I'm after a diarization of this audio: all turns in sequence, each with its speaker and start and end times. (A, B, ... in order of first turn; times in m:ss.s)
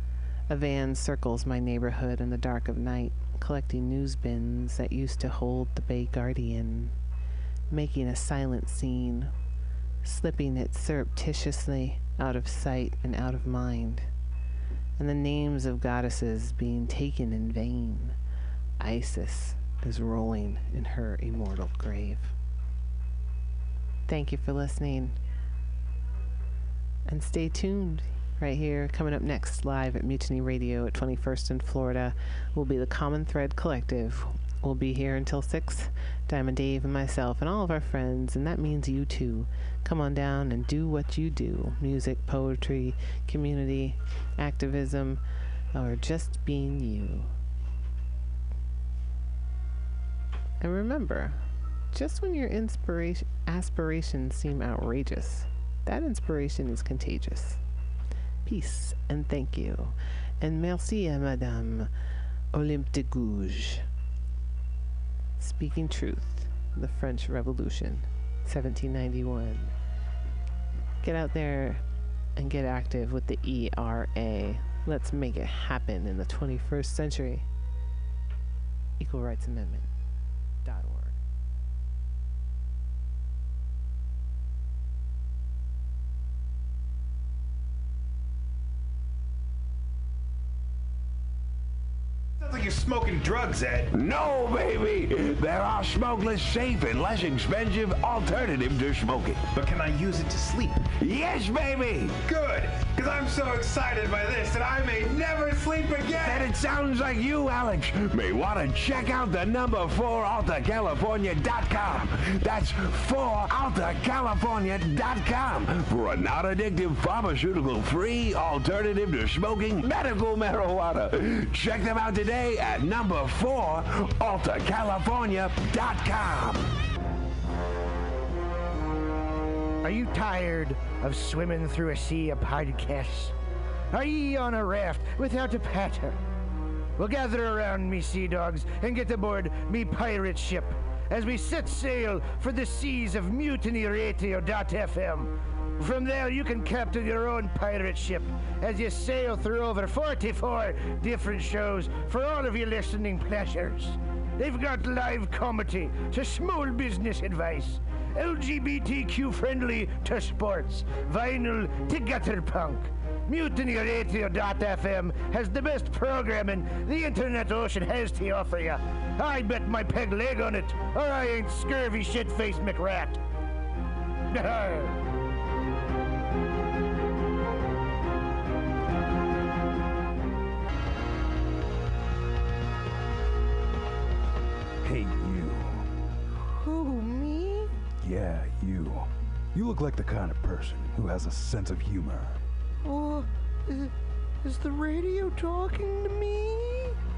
0:00.5-0:06.9 A
0:07.7-0:09.3 A
0:10.0-0:14.1 A
0:15.0-0:18.2 A
0:18.8-0:22.3 A
0:24.1-0:25.2 A
0:27.1-0:45.2 A
0:45.7-0:47.3 A
0:50.6-0:51.4 A
0:51.9-0:57.6 A
0:58.4-1:01.9 A
1:02.5-1:03.8 A
1:05.4-1:09.7 A
1:11.0-1:11.8 A
1:12.4-1:17.5 A
1:19.0-1:19.9 A
1:20.6-1:21.2 A
1:32.4-1:33.9 B
1:33.6-1:42.8 C
1:39.6-1:40.5 B
1:42.3-1:46.4 B
1:43.6-1:44.6 C
1:45.4-2:06.6 C
2:09.8-2:13.3 D
2:13.9-2:16.2 D
2:17.0-2:53.2 D
2:54.3-2:55.0 D
3:04.8-3:05.9 E
3:06.6-3:07.7 F
3:08.0-3:12.4 E
3:12.8-3:13.9 F
3:14.4-3:17.0 F